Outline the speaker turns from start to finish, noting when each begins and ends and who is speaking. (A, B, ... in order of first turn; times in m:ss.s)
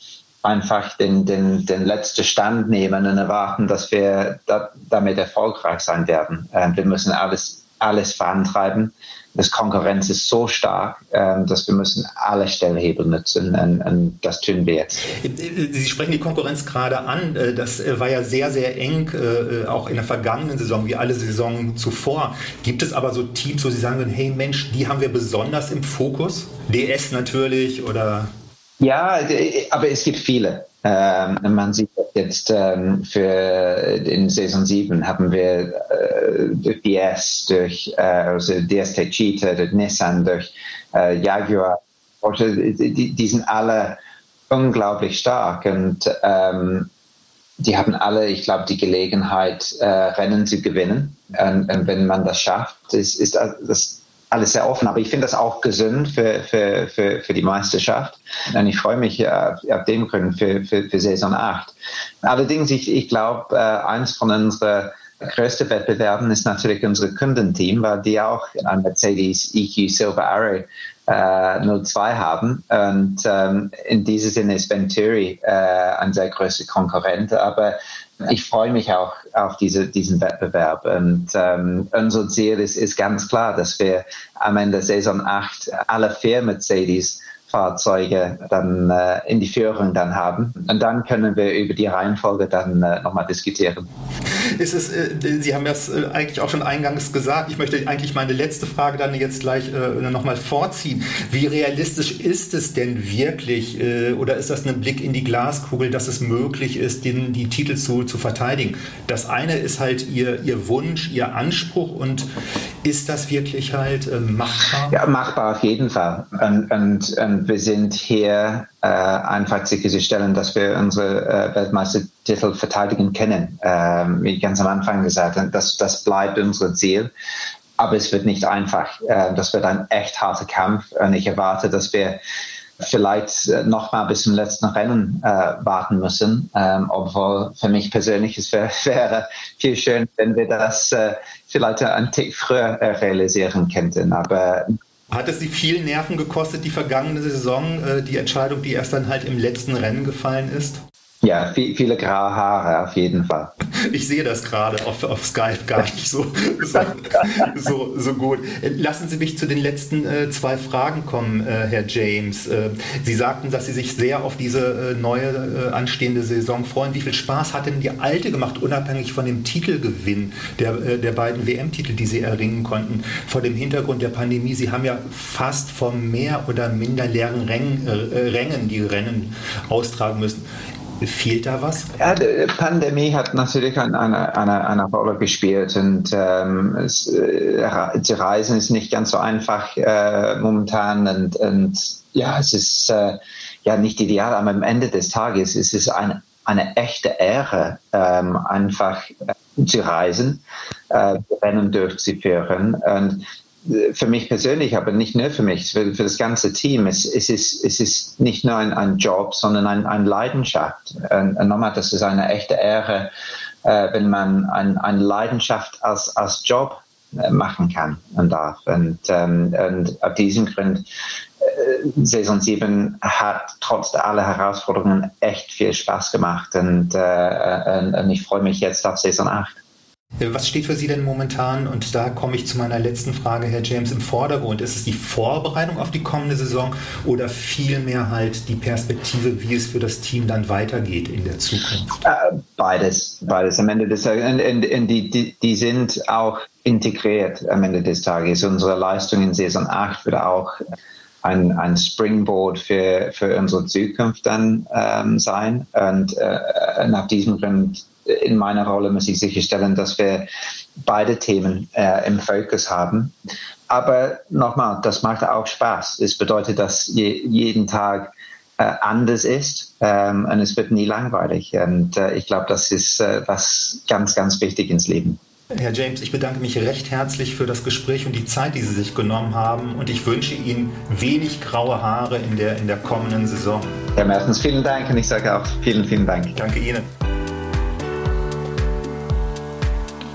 0:00.4-0:15.1 A
0:15.1-0:28.3 B
0:28.8-0:44.0 A
0:44.5-0:46.9 A
0:47.6-1:33.9 A
1:34.2-1:52.3 B
1:52.8-1:55.0 B
1:54.9-2:07.1 A
2:07.8-2:12.2 A
2:12.8-2:24.7 A
2:25.1-2:30.8 B
2:31.2-2:33.5 A
2:33.7-3:00.4 B
3:01.0-3:01.9 B
3:02.0-3:33.1 A
3:33.6-3:40.8 A
3:41.4-3:49.6 A
3:50.2-4:02.0 B
4:02.0-4:10.6 A
4:11.2-4:20.3 A
4:20.8-4:23.1 A
4:23.7-4:35.2 A
4:35.5-4:43.7 B
4:44.0-4:46.4 A
4:46.4-4:46.9 B